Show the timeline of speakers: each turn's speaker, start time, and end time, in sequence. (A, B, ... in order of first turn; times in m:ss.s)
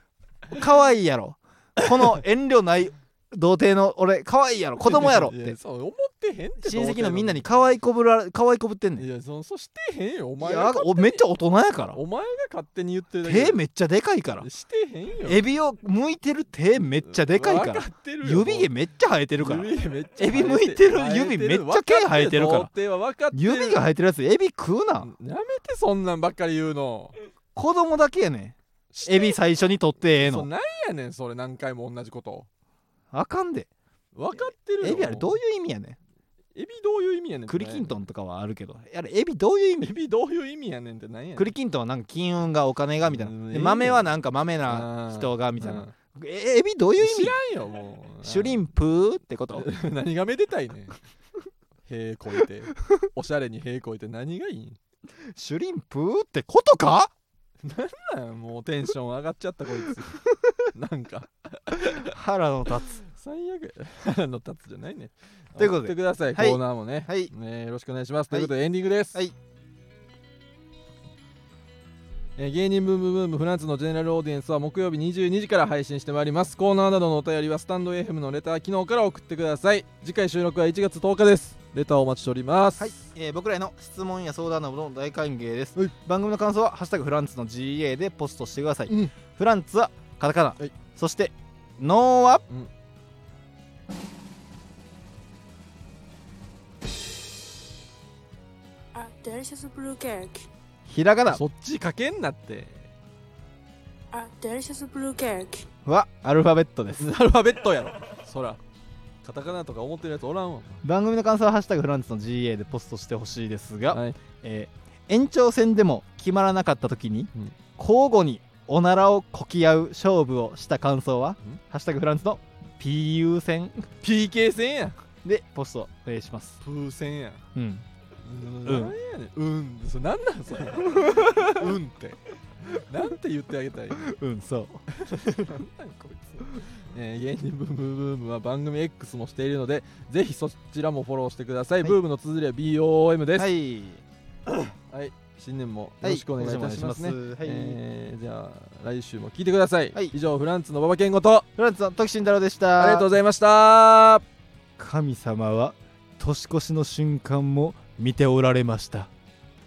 0:00.5-0:05.6 A
0:04.8-0:07.4 B
0:06.6-0:09.1 A
0:09.0-0:11.2 B
0:10.4-0:12.0 A
0:11.9-0:13.6 B
0:13.2-0:14.5 A
0:14.4-0:15.4 B
0:15.3-0:22.7 A
0:17.0-0:18.7 B
0:19.4-0:23.8 B
0:23.3-0:25.1 A
0:25.0-0:27.2 B
0:27.6-0:30.5 A
0:28.9-0:29.4 B
0:30.2-0:32.5 B
0:33.1-0:33.7 A
0:34.2-0:35.3 B
0:34.8-0:36.0 A
0:36.6-0:37.9 B
0:37.5-0:39.9 A
0:39.8-0:41.5 B
0:41.4-0:47.4 A
0:43.0-0:44.1 B
0:44.7-0:46.0 B
0:47.0-0:48.6 B
0:48.2-0:49.7 A
0:49.5-0:51.0 B
0:51.9-0:54.8 B
0:55.3-0:57.1 A
0:57.6-1:02.1 B
1:01.8-1:03.0 A
1:03.0-1:09.2 B
1:05.6-1:07.3 A
1:12.4-1:23.0 B
1:22.8-1:32.4 A
1:28.9-1:29.1 B
1:39.0-1:40.5 C
1:40.9-1:41.4 A
1:41.3-1:42.9 B
1:44.1-1:45.7 C
1:45.8-1:47.1 A
1:47.0-1:48.6 B
1:49.2-1:50.8 B
1:50.8-2:03.9 A
1:53.9-1:54.2 B
2:04.0-2:05.0 B
2:05.2-2:06.6 A
2:06.6-2:07.4 B
2:07.6-2:07.9 A
2:08.2-2:14.1 B
2:08.6-2:09.0 A
2:11.0-2:11.5 A
2:14.0-2:14.8 A
2:14.9-2:23.5 B
2:23.4-2:24.0 A
2:24.5-2:31.5 B
2:26.0-2:27.8 A
2:31.6-2:33.1 A
2:32.8-2:34.2 B
2:34.8-2:39.1 A